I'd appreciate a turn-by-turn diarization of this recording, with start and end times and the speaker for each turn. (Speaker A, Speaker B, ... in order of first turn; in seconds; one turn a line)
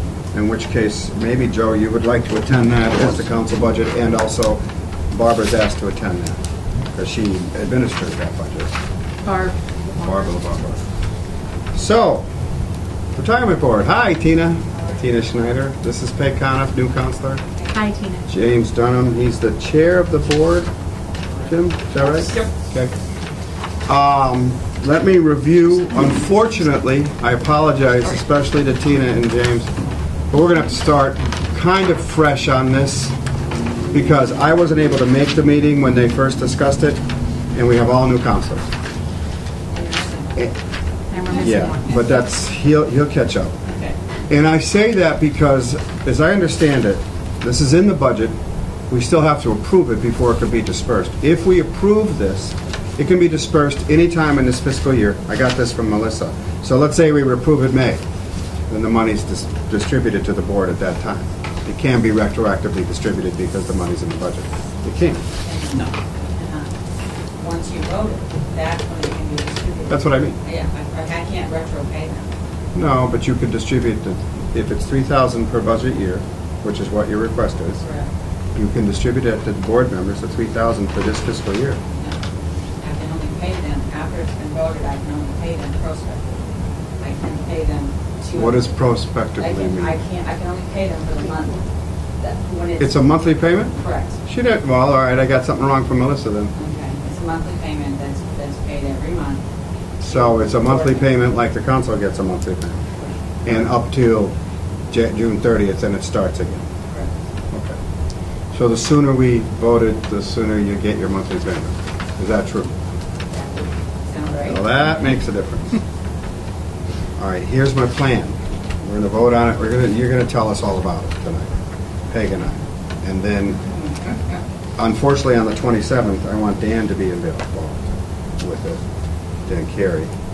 Speaker A: 0.3-6.4
Speaker A: 6.9-8.7
Speaker B: 9.2-10.3
Speaker A: 10.0-10.8
Speaker A: 11.7-12.2
Speaker A: 13.2-17.5
Speaker B: 17.7-18.3
Speaker A: 18.3-20.7
Speaker A: 21.4-22.9
Speaker C: 22.0-22.5
Speaker A: 23.9-29.7
Speaker A: 30.3-33.1
Speaker A: 33.9-37.0
Speaker A: 37.5-38.7
Speaker C: 39.7-40.5
Speaker B: 41.1-42.0
Speaker C: 41.3-41.7
Speaker A: 41.3-43.5
Speaker C: 43.7-44.0
Speaker A: 44.3-48.4
Speaker A: 48.9-58.0
Speaker A: 58.7-65.2
Speaker C: 65.4-66.7
Speaker C: 67.4-72.3
Speaker A: 69.9-70.4
Speaker A: 72.8-77.8
Speaker C: 77.8-78.1
Speaker A: 78.5-81.8
Speaker C: 81.9-82.2
Speaker C: 82.8-88.7
Speaker A: 88.3-90.0
Speaker C: 89.4-91.7
Speaker C: 92.2-93.0
Speaker A: 92.8-96.5
Speaker C: 93.7-94.2
Speaker C: 96.6-99.4
Speaker A: 100.0-102.9
Speaker C: 100.0-101.0
Speaker A: 103.5-104.3
Speaker A: 104.9-106.7
Speaker A: 107.5-107.8
Speaker A: 108.5-112.7
Speaker C: 113.3-114.6
Speaker A: 114.4-115.8
Speaker A: 117.2-121.5
Speaker A: 122.1-123.7
Speaker C: 123.8-124.2
Speaker A: 124.8-127.9
Speaker A: 128.4-128.8
Speaker A: 129.5-130.1